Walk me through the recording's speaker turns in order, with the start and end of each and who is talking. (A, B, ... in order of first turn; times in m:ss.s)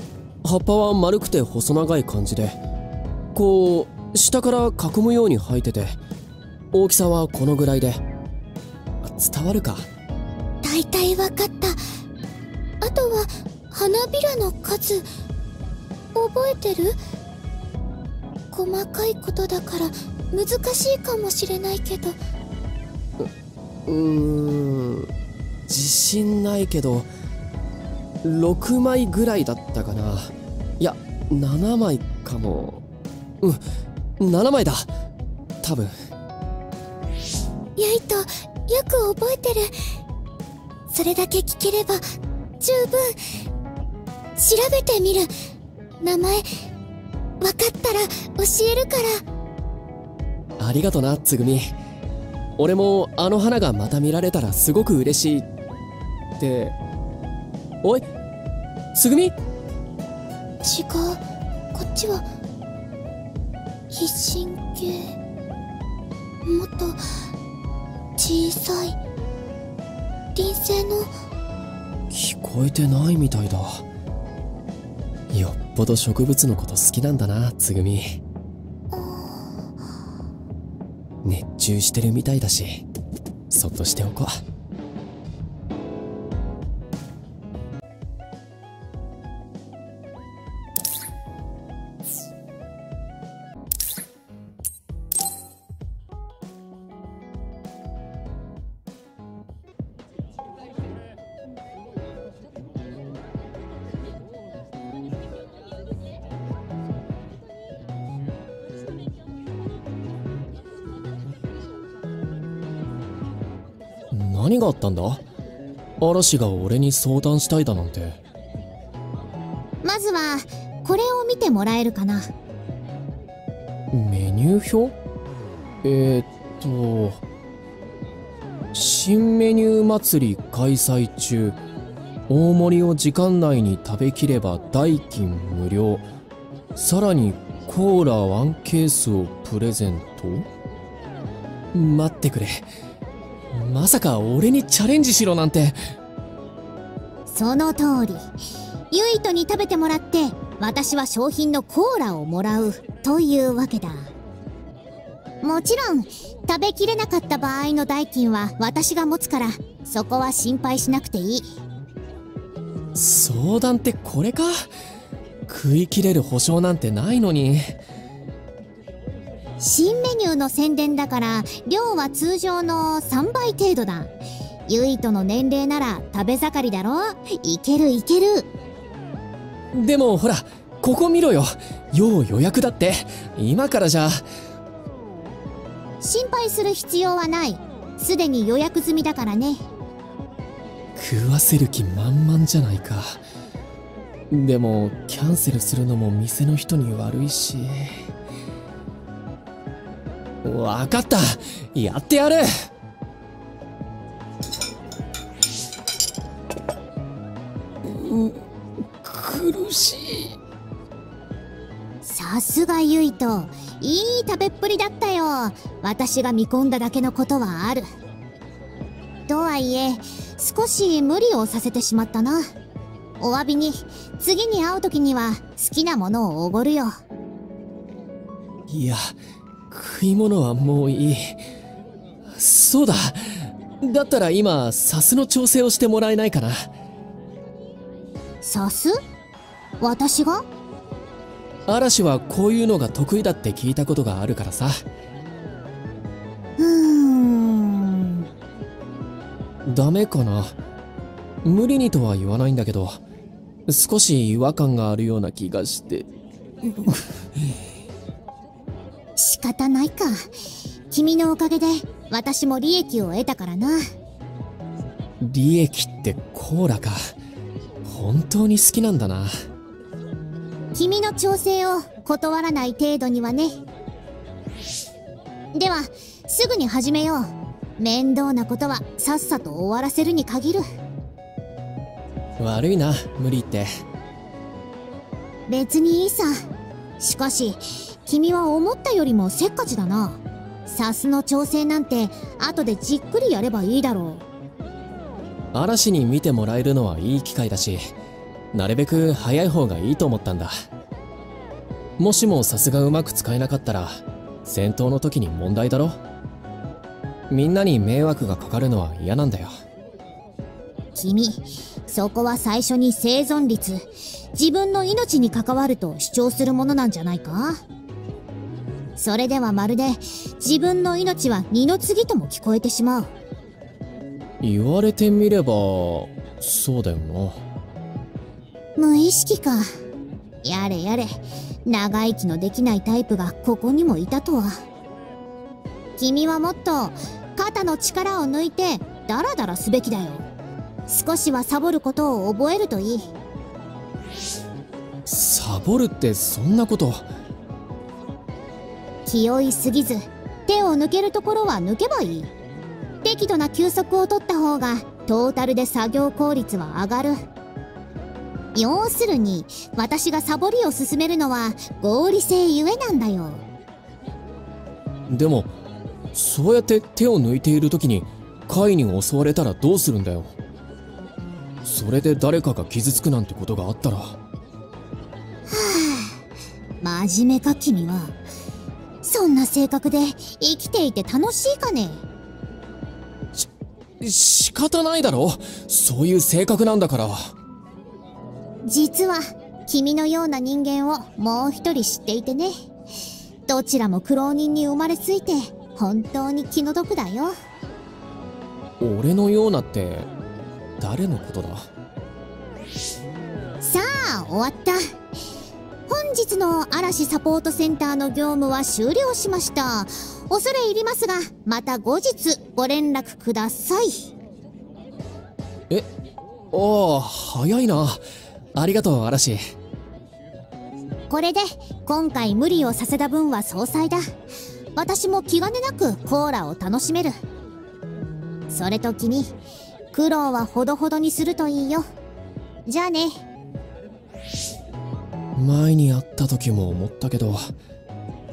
0:00.4-0:02.6 A
0:03.3-0:06.0 A
0:06.7-0:08.0 A
0:09.0-0:09.9 A
0:10.6-0:11.8 B
0:12.8-0:15.0 B
0:16.1-0:17.0 B
0:18.5-0:22.2 B
0:23.9-0:25.1 A
0:25.7-0:27.1 A
0:28.2-0:32.8 A
0:34.2-0:34.9 A
0:35.6-0:35.9 A
0:37.8-0:39.7 B
0:40.9-0:42.0 B
0:42.6-0:43.2 B
0:44.4-0:45.3 B
0:46.0-0:46.4 B
0:47.4-0:49.2 B
0:50.6-0:51.7 A
0:52.6-0:55.5 A
0:56.4-0:56.8 A
0:58.9-0:59.3 A
1:00.6-1:01.2 B
1:01.7-1:02.3 B
1:03.9-1:05.1 B
1:06.4-1:07.0 B
1:08.2-1:09.0 B
1:10.3-1:11.1 B
1:12.1-1:13.8 A
1:15.3-1:18.2 A
1:18.9-1:19.4 B
1:21.2-1:22.8 A
1:23.5-1:24.4 A
1:54.1-1:55.2 A
1:56.0-1:58.2 A
1:59.8-2:02.3 B
2:03.9-2:04.9 A
2:05.8-2:07.2 A
2:08.7-2:11.6 A
2:12.3-2:16.1 A
2:16.7-2:20.5 A
2:21.7-2:22.7 A
2:23.5-2:25.8 A
2:27.3-2:28.3 B
2:28.9-2:34.1 B
2:35.4-2:41.5 B
2:42.9-2:44.7 A
2:45.5-2:47.8 A
2:49.6-2:54.1 B
2:54.7-2:58.5 B
2:59.7-3:04.2 A
3:06.0-3:09.6 B
3:11.0-3:13.2 A
3:14.3-3:18.0 A
3:20.4-3:22.5 A
3:27.8-3:28.4 A
3:29.0-3:30.4 A
3:32.0-3:37.8 B
3:39.3-3:42.4 B
3:43.2-3:46.9 B
3:48.7-3:49.2 A
3:49.7-3:51.4 A
3:52.3-3:56.7 A
3:58.4-3:59.0 B
3:59.8-4:00.4 B
4:01.7-4:04.8 A
4:06.6-4:08.2 B
4:09.7-4:10.6 A
4:11.4-4:13.0 A
4:13.7-4:16.1 A
4:16.6-4:16.9 A
4:19.2-4:20.2 B
4:20.9-4:23.8 B
4:25.2-4:27.1 A
4:27.8-4:29.3 A
4:30.7-4:33.6 B
4:35.5-4:40.6 B
4:42.4-4:43.7 A
4:45.5-4:46.3 B
4:47.0-4:54.2 B
4:55.5-4:57.9 A
4:58.5-5:00.5 A
5:02.0-5:06.0 A
5:07.3-5:09.5 A
5:10.9-5:17.6 B
5:19.0-5:23.1 B
5:24.4-5:27.4 A
5:28.8-5:29.7 B
5:30.4-5:34.6 B
5:36.0-5:40.2 B
5:40.9-5:43.1 B
5:45.0-5:47.1 A
5:49.0-5:52.3 B
5:53.0-5:57.2 B
5:58.5-6:03.4 B
6:05.1-6:05.5 A
6:06.1-6:10.3 A
6:11.6-6:14.2 A
6:15.5-6:16.1 B
6:16.8-6:18.2 B
6:19.0-6:22.0 B
6:24.0-6:27.3 A
6:28.6-6:32.5 B
6:33.5-6:37.3 B
6:38.8-6:40.1 A
6:40.8-6:41.7 A
6:43.6-6:44.8 B
6:45.9-6:54.1 B
6:56.5-6:58.0 A
6:58.5-6:59.4 A
7:01.1-7:04.0 B
7:04.8-7:07.2 B
7:08.5-7:09.3 B
7:09.9-7:11.8 B
7:12.6-7:13.2 B
7:15.4-7:17.5 A